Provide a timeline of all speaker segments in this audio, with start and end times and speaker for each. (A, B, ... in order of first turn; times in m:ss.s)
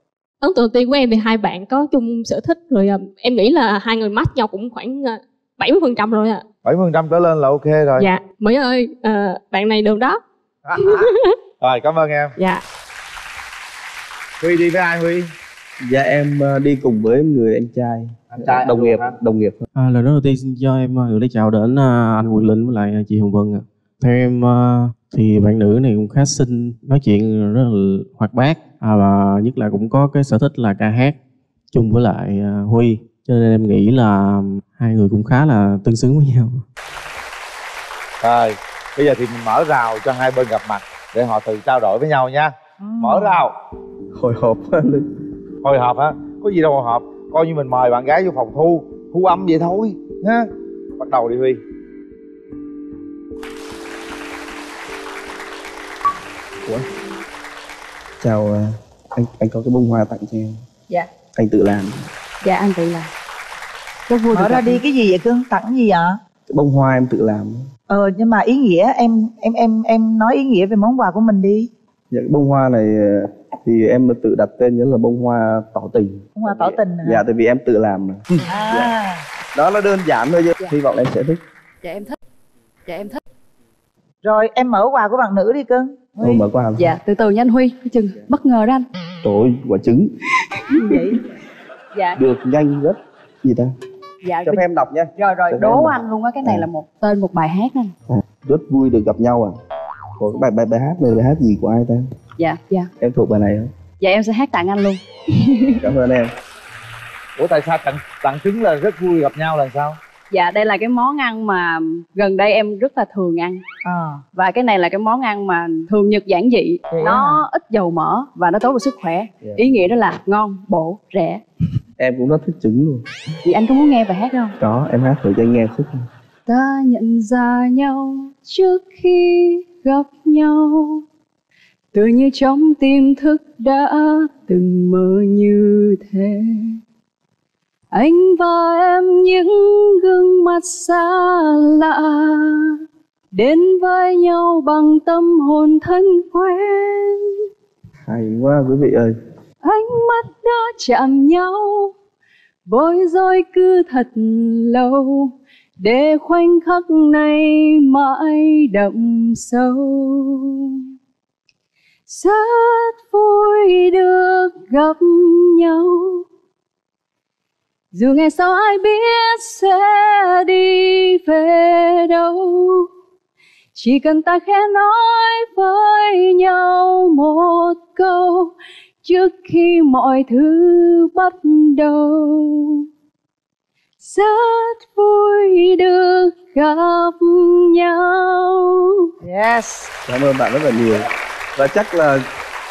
0:00.4-0:06.4 A
0:06.6-0:08.1 B
0:08.0-0:10.2 A
0:10.7-0:11.1 B
0:10.8-0:11.3 A
0:11.6-0:12.3 B
0:12.4-0:12.6 A
0:14.4-0:15.3 B
0:15.8-0:19.6 C
0:18.3-0:19.2 B
0:19.8-0:31.2 D
0:31.7-0:36.6 D
0:38.2-0:43.5 B
0:42.8-0:43.4 E
0:44.2-0:45.1 C
0:45.6-0:50.5 B
0:51.0-0:51.6 B
0:56.6-0:56.9 C
0:58.2-1:00.6 C
1:01.3-1:02.1 C
1:02.4-1:03.1 F
1:04.1-1:04.8 F
1:04.3-1:06.2 E
1:06.5-1:07.7 C
1:07.9-1:11.7 E
1:12.1-1:18.9 C
1:16.4-1:17.2 E
1:18.5-1:19.2 E
1:19.5-1:21.4 C
1:21.8-1:22.2 F
1:22.9-1:23.2 F
1:24.2-1:26.4 E
1:26.2-1:26.9 C
1:26.8-1:28.8 F
1:29.2-1:30.1 C
1:30.9-1:31.2 E
1:32.2-1:33.7 C
1:34.2-1:34.6 F
1:34.4-1:36.7 C
1:35.2-1:37.9 F
1:38.1-1:39.6 C
1:40.2-1:42.1 C
1:42.4-1:42.9 F
1:43.0-1:43.7 C
1:44.0-1:45.8 F
1:45.8-1:46.3 C
1:47.4-1:50.0 B
1:50.3-1:53.6 F
1:53.8-1:54.2 E
1:54.4-2:01.4 F
1:56.9-1:57.4 E
1:59.4-1:59.9 C
2:02.0-2:03.0 C
2:03.4-2:04.6 F
2:04.6-2:06.1 C
2:06.5-2:11.0 F
2:11.9-2:16.8 F
2:17.9-2:22.8 F
2:23.3-2:27.4 F
2:28.1-2:29.2 C
2:29.6-2:31.9 F
2:32.7-2:40.8 F
2:42.1-2:46.2 F
2:47.9-2:52.9 F
2:53.8-3:02.9 F
3:04.0-3:09.1 F
3:09.2-3:09.9 E
3:10.1-3:12.2 C